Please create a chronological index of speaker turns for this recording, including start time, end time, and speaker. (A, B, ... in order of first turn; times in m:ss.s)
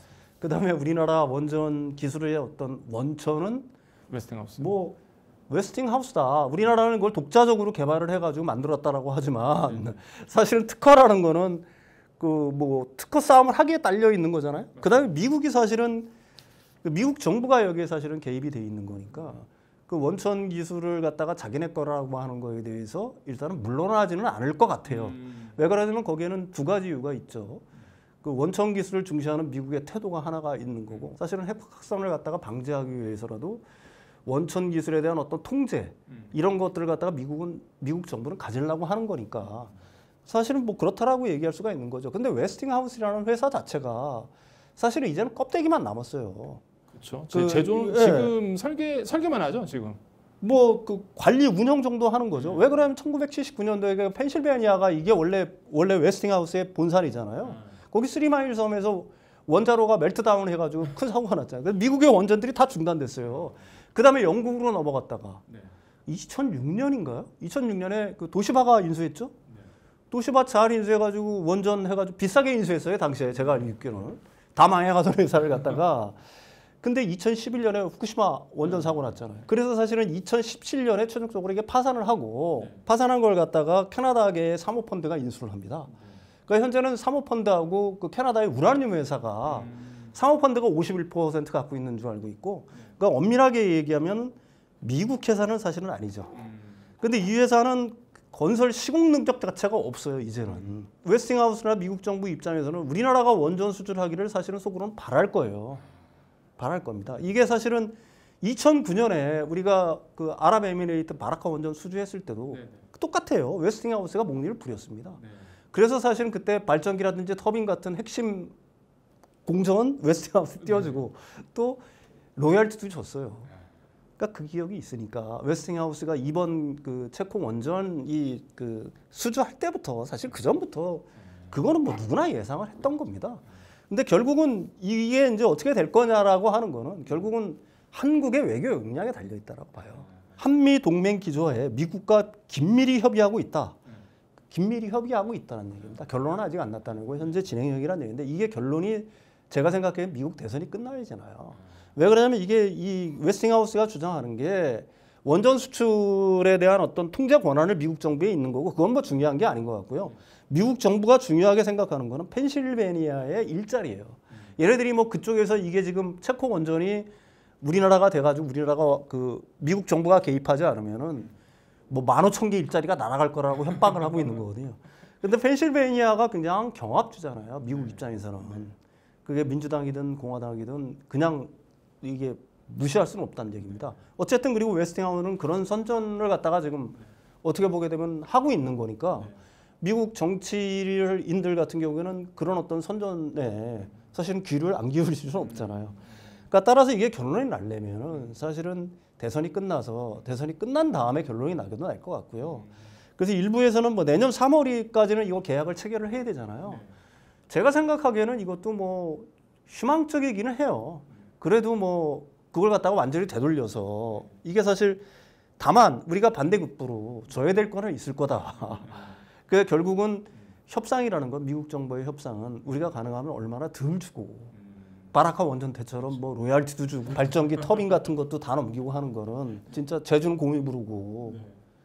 0:00.4-0:03.7 A
0:04.1-0:04.7 B
0:04.6-0:11.7 A
0:09.7-0:09.9 B
0:12.2-0:16.1 A
0:16.8-0:27.6 A
0:24.9-0:25.5 B
0:28.2-0:33.6 A
0:34.2-0:39.7 A
0:40.3-0:46.6 A
0:46.9-0:50.0 B
0:47.3-0:48.3 A
0:50.4-1:05.4 A
0:52.3-0:52.8 B
1:06.0-1:09.4 A
1:10.1-1:16.2 A
1:16.8-1:25.9 A
1:18.7-1:19.0 B
1:26.5-1:36.4 A
1:29.5-1:30.1 B
1:37.0-1:45.8 A
1:46.6-1:55.2 A
1:52.5-1:52.8 B
1:55.2-1:55.5 B
1:55.7-1:58.6 A
1:59.4-2:01.8 A
2:02.4-2:03.5 A
2:04.2-2:23.8 A
2:24.5-2:47.1 A
2:47.6-2:51.3 A
2:51.9-3:26.8 A
3:27.5-3:35.1 A
3:35.6-3:44.5 A
3:45.1-3:51.5 A